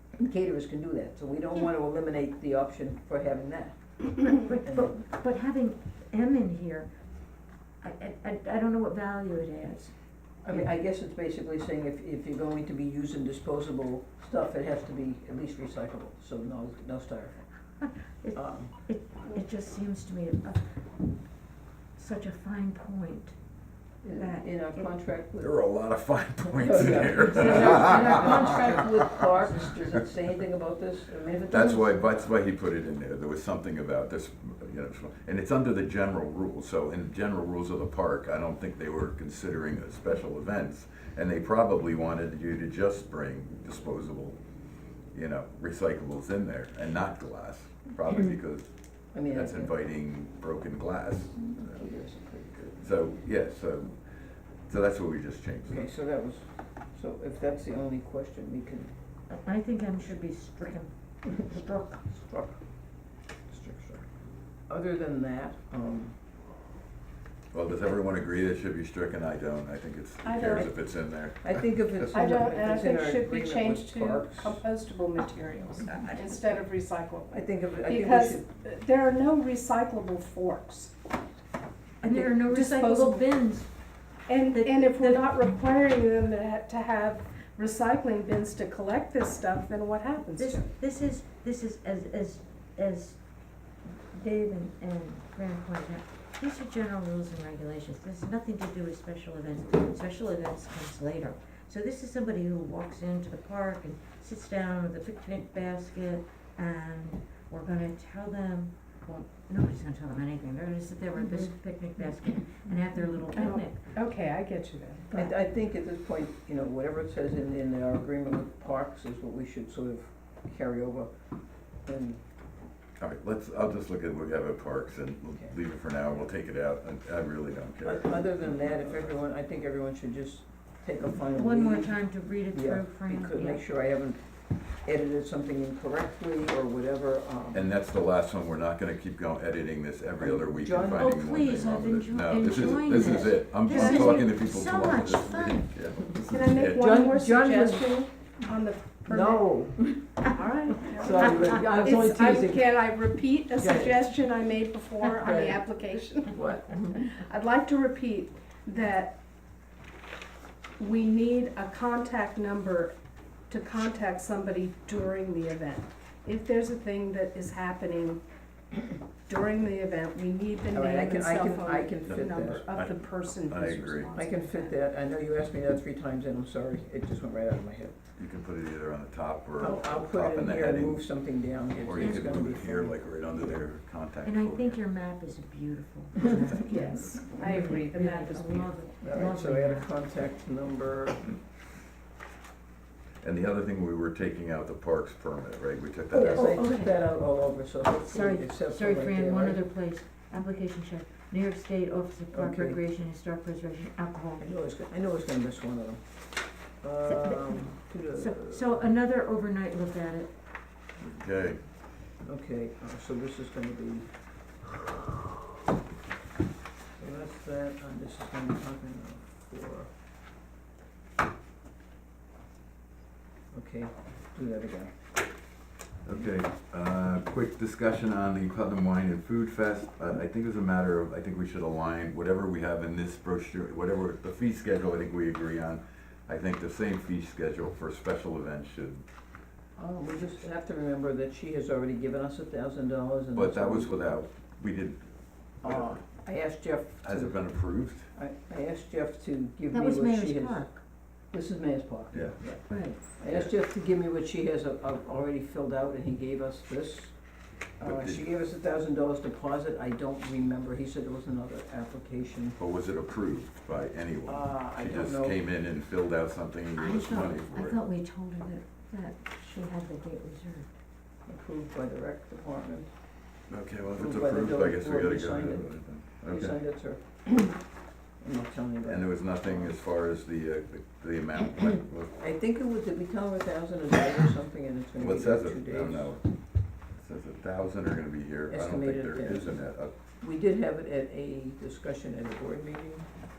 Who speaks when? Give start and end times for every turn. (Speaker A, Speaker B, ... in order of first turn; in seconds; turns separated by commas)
Speaker A: 0.2-4.0, Speaker B: 4.2-6.9, Speaker A: 4.6-4.9, Speaker B: 7.8-10.7, Speaker A: 10.4-17.4, Speaker B: 17.8-20.6, Speaker A: 18.4-18.7, Speaker B: 21.9-23.4, Speaker A: 24.0-25.5, Speaker B: 24.1-24.8, Speaker C: 25.4-28.8, Speaker A: 26.6-31.9, Speaker B: 26.7-29.3, Speaker C: 31.5-44.4, Speaker C: 45.1-48.7, Speaker A: 49.1-49.7, Speaker C: 49.3-51.9, Speaker A: 51.4-52.8, Speaker C: 52.6-54.0, Speaker C: 54.7-55.9, Speaker A: 55.7-58.9, Speaker B: 59.3-62.0, Speaker A: 61.3-62.6, Speaker A: 63.5-64.0, Speaker A: 64.7-66.1, Speaker C: 67.5-71.7, Speaker D: 70.2-70.7, Speaker A: 70.5-70.7, Speaker A: 71.4-74.6, Speaker D: 72.1-80.9, Speaker A: 77.3-78.4, Speaker B: 82.0-83.7, Speaker D: 82.0-83.2, Speaker D: 84.3-90.7, Speaker B: 84.5-85.4, Speaker B: 90.3-93.2, Speaker B: 93.8-113.8, Speaker D: 111.2-111.5, Speaker D: 113.3-115.3, Speaker A: 115.1-121.1, Speaker A: 121.8-122.2, Speaker C: 123.0-129.0, Speaker A: 127.8-132.0, Speaker B: 131.3-133.6, Speaker A: 132.5-134.2, Speaker A: 134.8-137.7, Speaker C: 137.5-146.9, Speaker A: 140.2-141.2, Speaker B: 140.9-145.8, Speaker A: 142.9-143.3, Speaker D: 143.7-144.2, Speaker D: 146.3-149.6, Speaker A: 146.7-148.1, Speaker A: 149.1-152.8, Speaker D: 150.2-156.4, Speaker A: 153.6-154.2, Speaker A: 155.2-155.6, Speaker A: 156.2-157.2, Speaker D: 157.0-159.2, Speaker D: 160.8-162.9, Speaker D: 163.5-168.2, Speaker D: 169.3-174.8, Speaker A: 170.7-172.7, Speaker C: 172.1-174.1, Speaker A: 174.1-178.0, Speaker C: 178.2-181.1, Speaker A: 179.6-183.0, Speaker C: 181.8-184.8, Speaker B: 182.0-182.4, Speaker B: 184.2-189.9, Speaker D: 186.6-188.8, Speaker A: 189.0-191.4, Speaker C: 193.2-196.7, Speaker A: 196.1-199.6, Speaker B: 196.3-197.0, Speaker B: 197.9-204.5, Speaker A: 202.3-202.8, Speaker A: 204.4-206.0, Speaker A: 206.8-208.8, Speaker B: 207.1-210.3, Speaker C: 211.0-211.6, Speaker A: 212.2-214.1, Speaker A: 217.0-219.9, Speaker A: 223.5-225.0, Speaker C: 226.0-239.0, Speaker A: 239.8-244.3, Speaker C: 243.3-245.1, Speaker C: 245.6-246.0, Speaker A: 245.6-247.5, Speaker C: 247.0-248.1, Speaker A: 248.1-250.7, Speaker B: 249.7-250.8, Speaker A: 251.3-257.1, Speaker C: 252.1-253.5, Speaker B: 252.7-253.0, Speaker A: 257.8-262.6, Speaker C: 257.8-258.3, Speaker C: 262.6-267.8, Speaker A: 264.2-265.4, Speaker B: 266.8-270.7, Speaker A: 271.2-272.9, Speaker C: 273.5-276.6, Speaker A: 273.9-277.6, Speaker A: 278.2-279.7, Speaker C: 278.8-282.2, Speaker A: 282.2-286.1, Speaker C: 285.0-286.3, Speaker C: 286.9-289.9, Speaker A: 288.5-289.6, Speaker A: 290.2-293.1